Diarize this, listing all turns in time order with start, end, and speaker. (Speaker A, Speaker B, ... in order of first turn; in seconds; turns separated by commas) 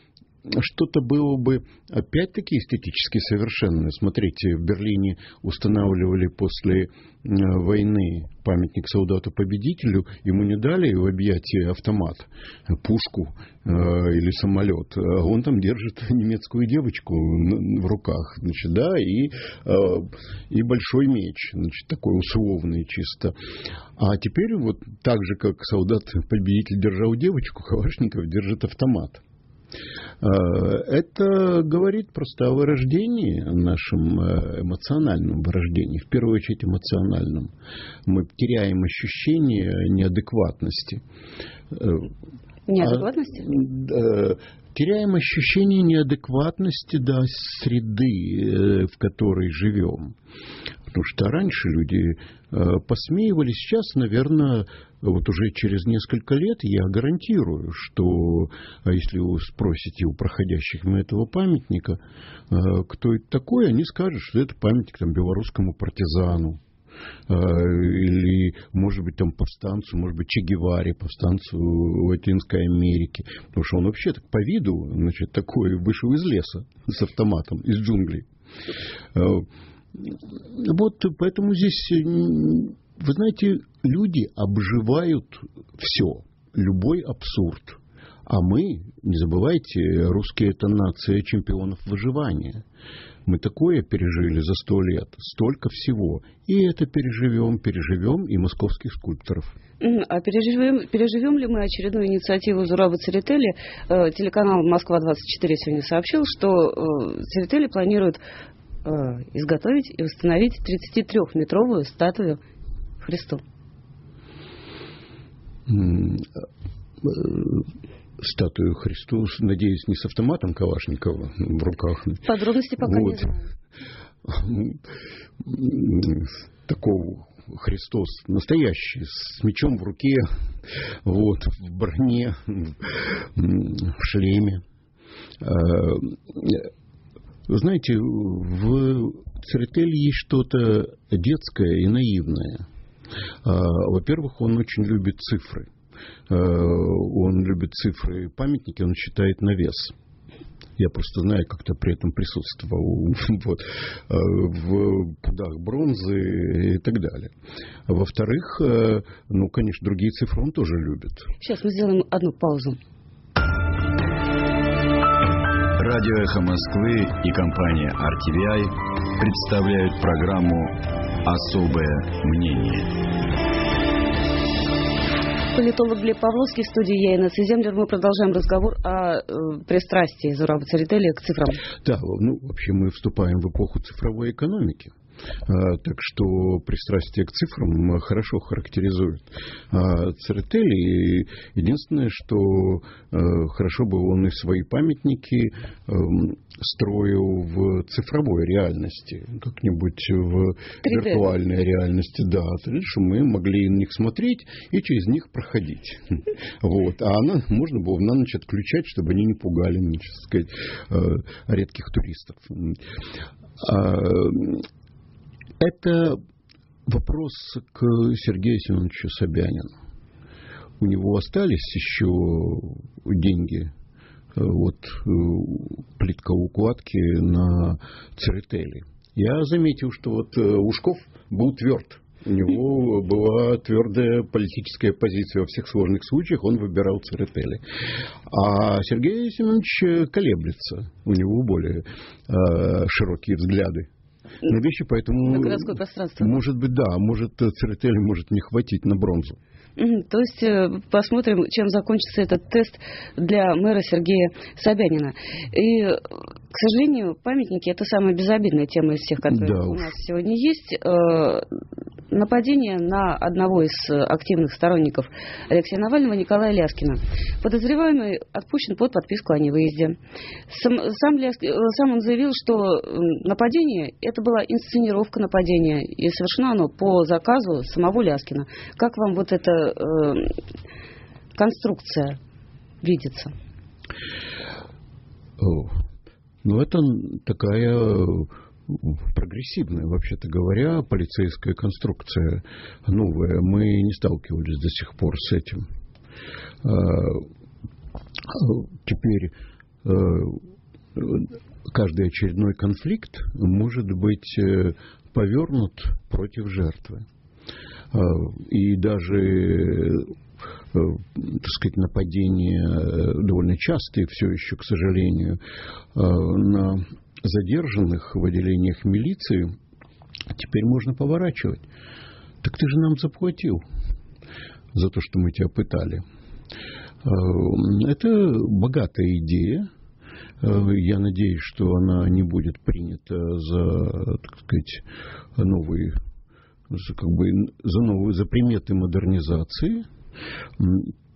Speaker A: 0.4-23.4, Speaker A: 24.0-29.2, Speaker A: 30.2-37.5, Speaker A: 38.0-41.0, Speaker A: 41.7-42.1, Speaker B: 42.7-43.5, Speaker A: 42.8-50.1, Speaker A: 50.9-66.6, Speaker A: 67.3-78.3, Speaker A: 79.1-92.6, Speaker A: 93.2-99.6, Speaker B: 99.8-108.2, Speaker B: 108.8-112.4, Speaker B: 113.0-113.4, Speaker A: 115.7-116.4, Speaker A: 117.0-122.3, Speaker B: 122.2-123.5, Speaker A: 122.8-123.3, Speaker A: 124.2-124.8, Speaker A: 125.4-134.6, Speaker A: 135.4-136.7, Speaker A: 137.5-142.7, Speaker A: 143.4-145.7, Speaker A: 146.3-149.9, Speaker A: 150.8-157.3, Speaker A: 157.9-161.3, Speaker B: 161.4-162.8, Speaker C: 165.8-173.0, Speaker B: 175.5-181.6, Speaker A: 181.8-184.9, Speaker A: 185.4-212.8, Speaker B: 200.8-201.2, Speaker A: 213.6-214.7, Speaker A: 215.6-216.2, Speaker A: 216.9-219.7, Speaker A: 220.8-223.7, Speaker A: 224.3-237.6, Speaker A: 238.3-243.9, Speaker A: 244.4-249.4, Speaker B: 245.3-246.4, Speaker B: 249.8-261.4, Speaker A: 259.3-259.9, Speaker B: 262.1-269.9, Speaker B: 270.5-280.4, Speaker B: 281.3-282.2, Speaker B: 282.8-283.3, Speaker A: 285.4-285.8, Speaker A: 286.4-295.6, Speaker A: 296.6-297.3, Speaker A: 298.3-300.4, Speaker A: 300.9-307.1, Speaker A: 307.9-310.1, Speaker A: 310.7-315.4, Speaker A: 315.9-319.6, Speaker A: 320.3-321.6, Speaker A: 322.4-323.6, Speaker A: 324.7-326.0, Speaker A: 327.0-329.7, Speaker A: 330.4-334.8, Speaker A: 335.4-336.0, Speaker A: 336.7-339.9, Speaker A: 340.6-340.9